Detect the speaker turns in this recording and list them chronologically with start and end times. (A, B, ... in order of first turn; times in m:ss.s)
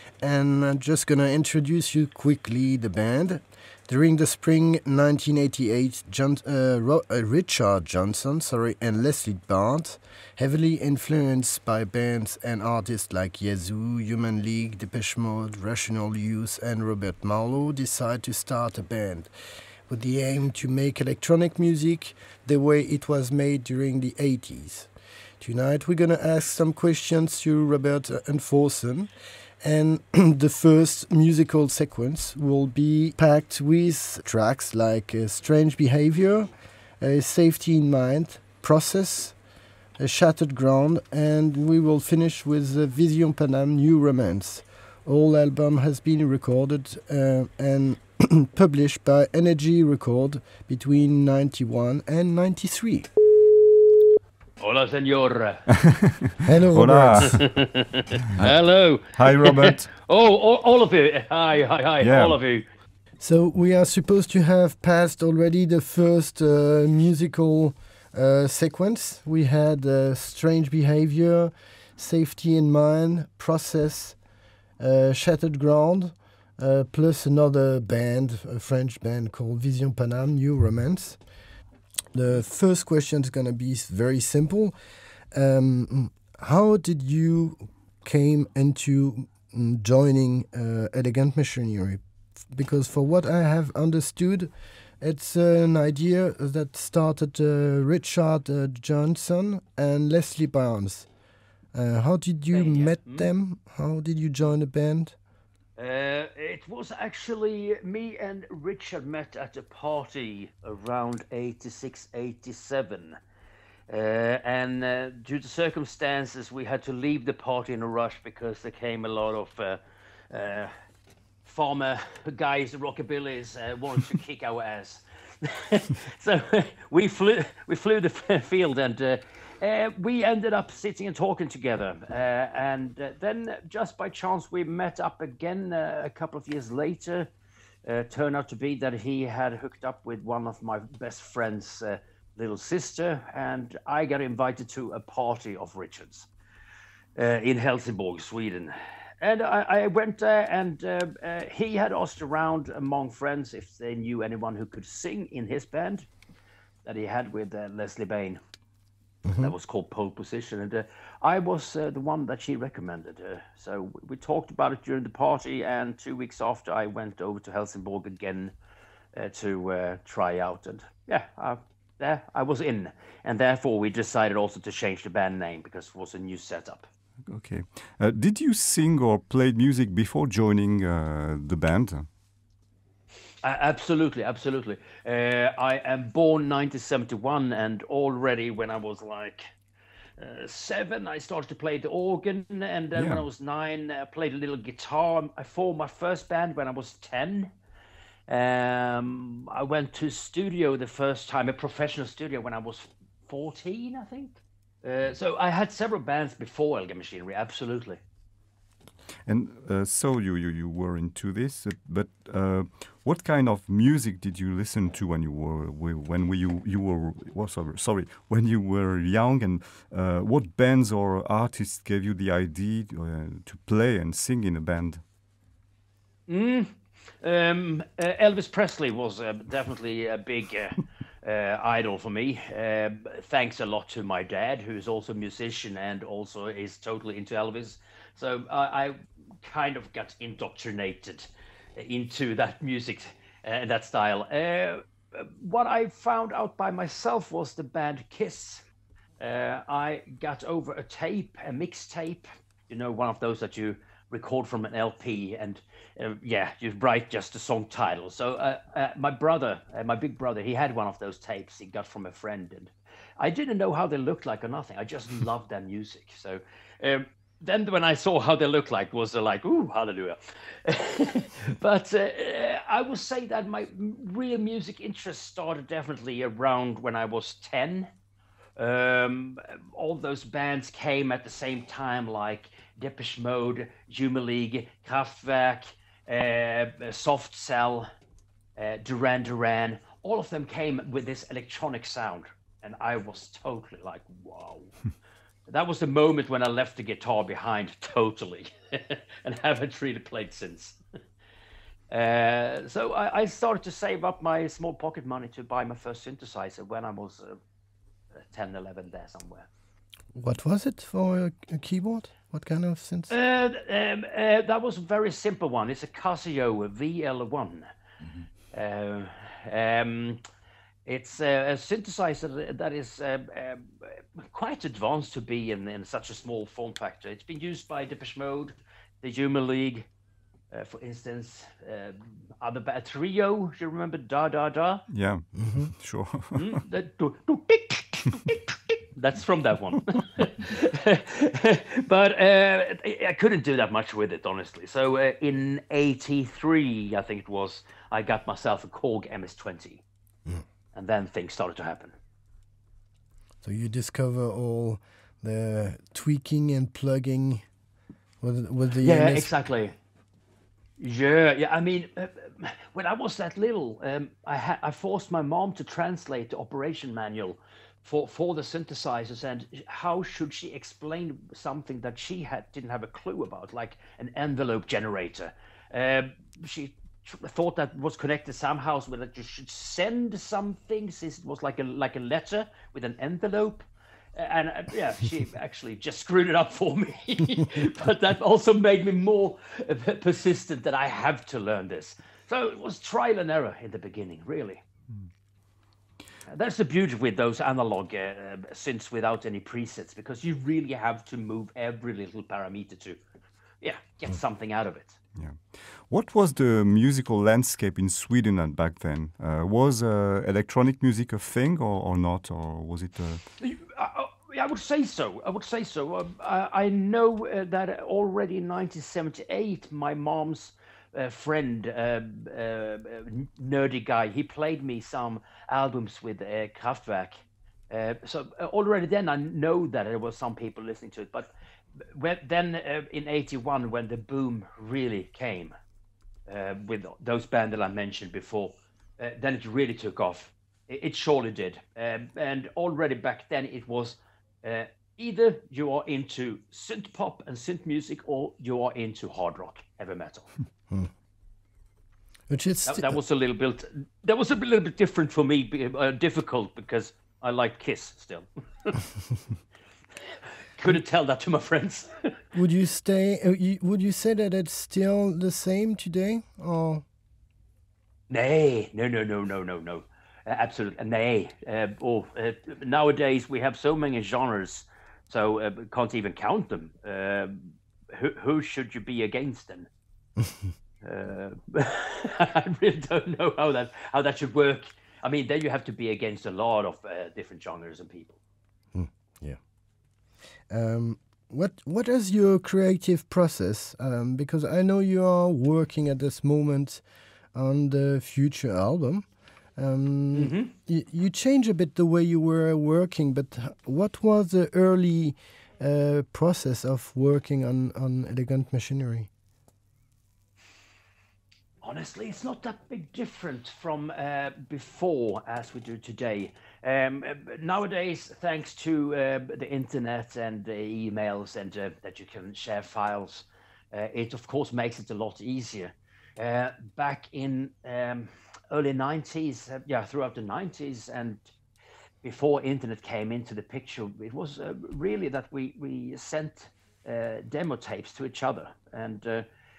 0:00.2-0:19.3 A
0:19.9-0:36.5 A
0:37.0-0:39.4 A
0:40.0-0:53.1 A
0:54.6-0:55.7 B
0:55.8-0:57.5 C
0:56.4-0:57.4 A
0:57.2-1:02.7 B
0:59.2-0:59.9 C
1:02.0-1:02.4 C
1:03.2-1:14.2 A
1:14.8-1:21.2 A
1:22.1-1:24.8 A
1:25.3-1:41.1 A
1:41.7-1:45.2 A
1:42.5-1:43.3 B
1:45.8-1:53.2 B
1:53.9-1:59.8 B
2:00.3-2:00.7 B
2:01.4-2:17.3 B
2:17.8-2:26.3 B
2:27.2-2:36.1 B
2:36.8-2:38.4 B
2:39.3-2:39.5 A
2:39.3-2:48.5 B
2:49.1-2:56.9 B
2:57.3-3:02.1 C
3:03.4-3:09.5 B
3:10.2-3:17.5 B
3:13.0-3:13.3 C
3:18.3-3:28.0 B
3:29.3-3:45.0 C
3:46.3-4:08.6 B
4:09.2-4:37.9 B
4:38.6-4:47.9 B
4:48.6-4:54.7 B
4:55.5-5:00.8 B
5:01.9-5:07.4 B
5:08.2-5:09.5 B
5:10.2-5:13.1 A
5:13.1-5:17.7 B
5:18.5-5:20.2 B
5:20.9-5:29.9 B
5:30.5-5:34.8 B
5:34.9-5:36.6 C
5:35.4-5:35.7 A
5:36.4-5:49.8 B
5:50.7-5:51.9 B
5:53.4-5:57.4 A
5:58.2-5:59.3 A
5:58.8-5:59.7 B
6:00.8-6:34.6 B
6:36.3-6:43.0 B
6:43.6-6:45.0 B
6:45.2-6:53.2 C
6:53.4-7:11.3 B
7:11.9-7:15.6 B
7:16.3-7:30.3 B
7:32.3-7:33.0 A
7:32.7-7:38.8 B
7:40.6-7:42.1 B
7:42.3-7:46.8 A
7:48.1-7:59.7 B
8:00.8-8:08.2 B
8:08.7-8:09.4 A
8:10.5-8:16.8 A
8:17.3-8:29.1 A
8:20.1-8:20.5 B
8:31.6-8:51.2 B
8:52.0-8:59.3 B